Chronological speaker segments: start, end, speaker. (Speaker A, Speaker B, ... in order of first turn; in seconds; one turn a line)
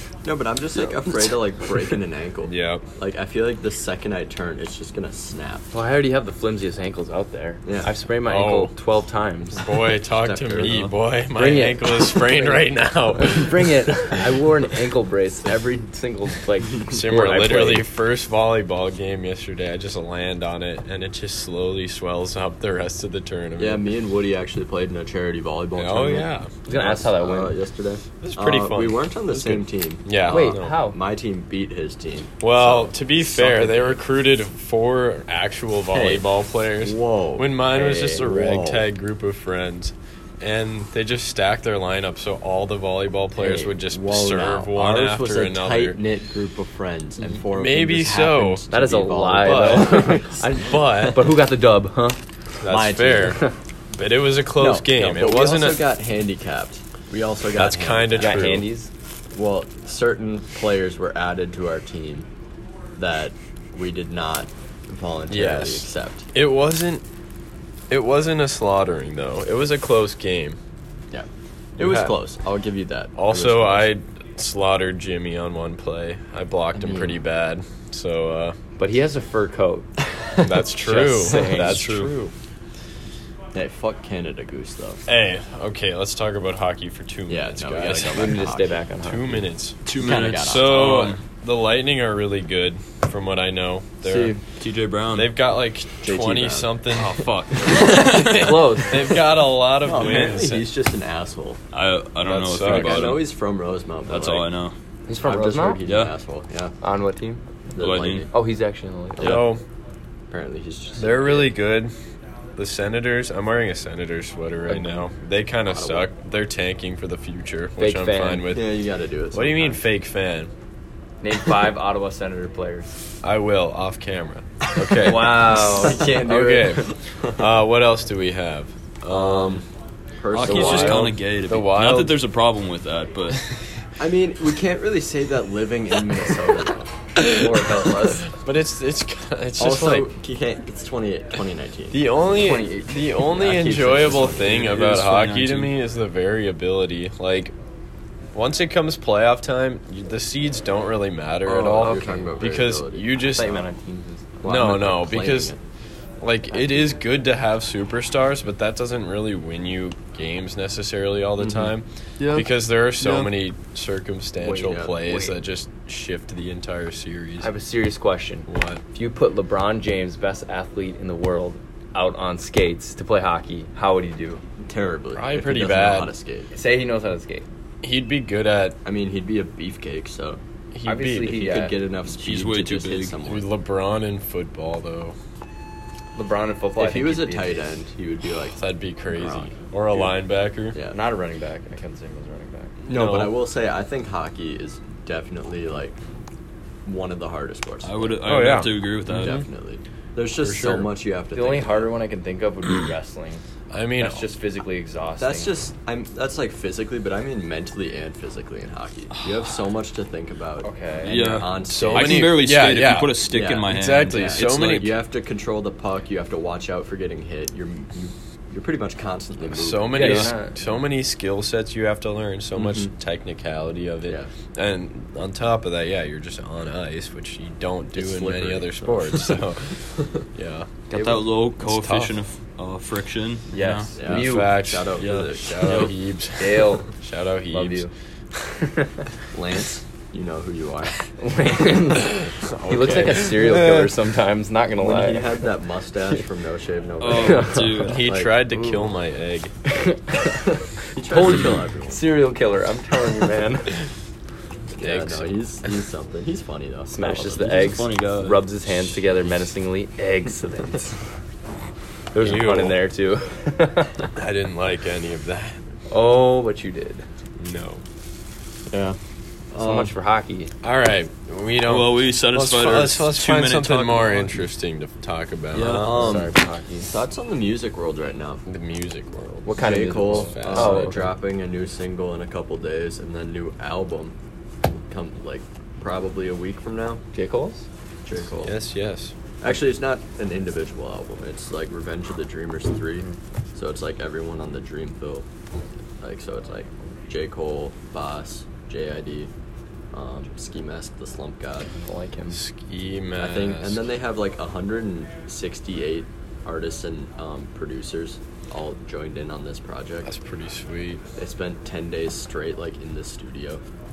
Speaker A: 0.2-5.7
Speaker B: 2.5-2.8
Speaker C: 5.7-9.7
Speaker A: 7.6-7.9
Speaker B: 8.2-8.7
Speaker B: 9.5-13.9
Speaker A: 10.1-10.9
Speaker C: 10.6-12.6
Speaker C: 13.1-17.9
Speaker B: 16.9-23.9
Speaker A: 23.6-34.0
Speaker B: 25.8-26.5
Speaker C: 26.6-27.5
Speaker B: 28.2-30.8
Speaker C: 30.3-31.0
Speaker B: 32.4-46.0
Speaker A: 35.9-38.8
Speaker A: 43.4-50.4
Speaker B: 47.5-48.6
Speaker C: 48.7-52.2
Speaker B: 49.4-51.3
Speaker B: 52.6-53.4
Speaker A: 52.6-53.4
Speaker B: 53.9-55.9
Speaker A: 54.5-58.5
Speaker B: 57.5-58.6
Speaker C: 58.1-58.9
Speaker A: 59.3-62.3
Speaker A: 63.0-66.3
Speaker B: 65.3-67.0
Speaker B: 67.9-70.6
Speaker A: 71.1-73.9
Speaker B: 71.8-72.2
Speaker B: 73.1-78.6
Speaker A: 76.8-77.2
Speaker C: 78.8-79.9
Speaker B: 80.4-82.3
Speaker C: 80.7-81.9
Speaker D: 81.3-82.1
Speaker A: 83.5-85.0
Speaker B: 85.1-94.4
Speaker A: 87.3-88.8
Speaker C: 88.0-89.4
Speaker D: 89.8-91.2
Speaker A: 90.0-91.1
Speaker A: 94.0-94.4
Speaker D: 94.5-95.3
Speaker B: 95.1-100.7
Speaker A: 96.0-98.5
Speaker D: 97.1-98.4
Speaker C: 98.1-99.1
Speaker A: 99.8-101.6
Speaker D: 101.7-103.3
Speaker B: 102.2-103.2
Speaker A: 102.5-104.5
Speaker D: 104.1-104.7
Speaker C: 105.1-105.8
Speaker A: 105.2-106.8
Speaker D: 105.8-106.1
Speaker C: 106.8-107.4
Speaker A: 107.7-108.3
Speaker D: 107.8-108.2
Speaker C: 108.3-109.4
Speaker B: 109.2-109.6
Speaker D: 109.2-109.5
Speaker A: 110.3-111.5
Speaker B: 111.0-111.9
Speaker B: 112.5-120.5
Speaker C: 114.7-114.9
Speaker A: 115.7-116.1
Speaker C: 117.8-118.5
Speaker A: 118.5-119.8
Speaker C: 121.2-122.9
Speaker B: 123.2-129.6
Speaker C: 125.0-126.6
Speaker A: 125.4-127.4
Speaker A: 129.1-129.6
Speaker A: 130.2-131.1
Speaker D: 130.3-133.4
Speaker B: 130.4-132.2
Speaker A: 134.0-136.9
Speaker B: 137.2-140.1
Speaker C: 137.3-138.3
Speaker A: 139.6-144.7
Speaker B: 141.9-147.5
Speaker C: 142.3-142.9
Speaker D: 144.4-145.7
Speaker B: 148.3-153.6
Speaker A: 151.4-153.3
Speaker C: 151.8-152.3
Speaker C: 153.2-154.4
Speaker A: 154.4-155.6
Speaker B: 154.4-155.5
Speaker B: 156.2-167.5
Speaker A: 161.4-161.7
Speaker D: 162.2-162.5
Speaker D: 163.0-163.3
Speaker A: 164.4-164.9
Speaker C: 164.7-165.4
Speaker C: 167.4-174.4
Speaker B: 168.5-168.8
Speaker A: 174.6-176.5
Speaker B: 175.1-176.1
Speaker C: 176.5-177.4
Speaker B: 177.8-178.8
Speaker A: 178.8-180.4
Speaker B: 180.7-181.4
Speaker C: 180.8-181.8
Speaker A: 181.2-183.5
Speaker D: 182.2-183.1
Speaker B: 183.2-185.1
Speaker C: 186.1-187.8
Speaker A: 186.8-188.6
Speaker B: 188.5-190.8
Speaker A: 189.1-190.2
Speaker A: 190.7-191.0
Speaker C: 190.9-192.7
Speaker B: 192.9-193.3
Speaker A: 192.9-196.0
Speaker A: 196.8-198.4
Speaker D: 197.8-199.4
Speaker B: 198.2-199.4
Speaker A: 199.1-201.9
Speaker B: 200.4-200.9
Speaker C: 201.3-203.4
Speaker B: 203.7-204.3
Speaker C: 204.0-205.5
Speaker A: 205.2-212.4
Speaker D: 209.2-209.5
Speaker C: 210.6-211.2
Speaker D: 211.0-214.9
Speaker B: 211.6-214.9
Speaker A: 213.3-220.3
Speaker B: 219.4-230.8
Speaker C: 219.9-220.6
Speaker A: 222.6-222.9
Speaker A: 227.9-229.4
Speaker D: 230.9-233.9
Speaker C: 230.9-231.2
Speaker B: 231.6-232.2
Speaker C: 233.5-234.6
Speaker A: 233.9-235.9
Speaker B: 234.0-237.8
Speaker D: 235.0-235.9
Speaker C: 236.4-236.9
Speaker C: 237.5-237.9
Speaker C: 238.5-238.9
Speaker A: 239.3-241.0
Speaker C: 241.2-245.4
Speaker B: 242.2-243.9
Speaker A: 244.8-248.8
Speaker D: 247.0-248.0
Speaker C: 247.1-247.8
Speaker B: 247.8-249.5
Speaker C: 249.7-253.7
Speaker A: 250.9-252.1
Speaker A: 254.7-257.4
Speaker B: 254.8-255.3
Speaker C: 256.9-261.0
Speaker D: 257.1-258.4
Speaker C: 262.1-264.0
Speaker B: 262.2-262.8
Speaker B: 264.1-265.6
Speaker C: 265.9-267.0
Speaker B: 267.4-267.8
Speaker A: 268.7-269.0
Speaker A: 269.5-269.9
Speaker C: 269.5-270.5
Speaker B: 270.6-276.2
Speaker D: 271.6-274.3
Speaker D: 275.5-276.0
Speaker A: 275.6-276.3
Speaker C: 275.8-276.9
Speaker A: 276.9-278.4
Speaker B: 278.4-281.1
Speaker C: 279.4-281.1
Speaker A: 279.6-284.1
Speaker A: 284.9-287.0
Speaker C: 287.1-287.6
Speaker A: 288.0-288.6
Speaker B: 288.4-289.1
Speaker A: 289.4-295.2
Speaker A: 296.0-299.3
Speaker A: 299.9-301.7
Speaker C: 301.7-302.4
Speaker B: 302.3-303.8
Speaker A: 303.2-310.1
Speaker B: 310.0-311.0
Speaker A: 311.2-313.6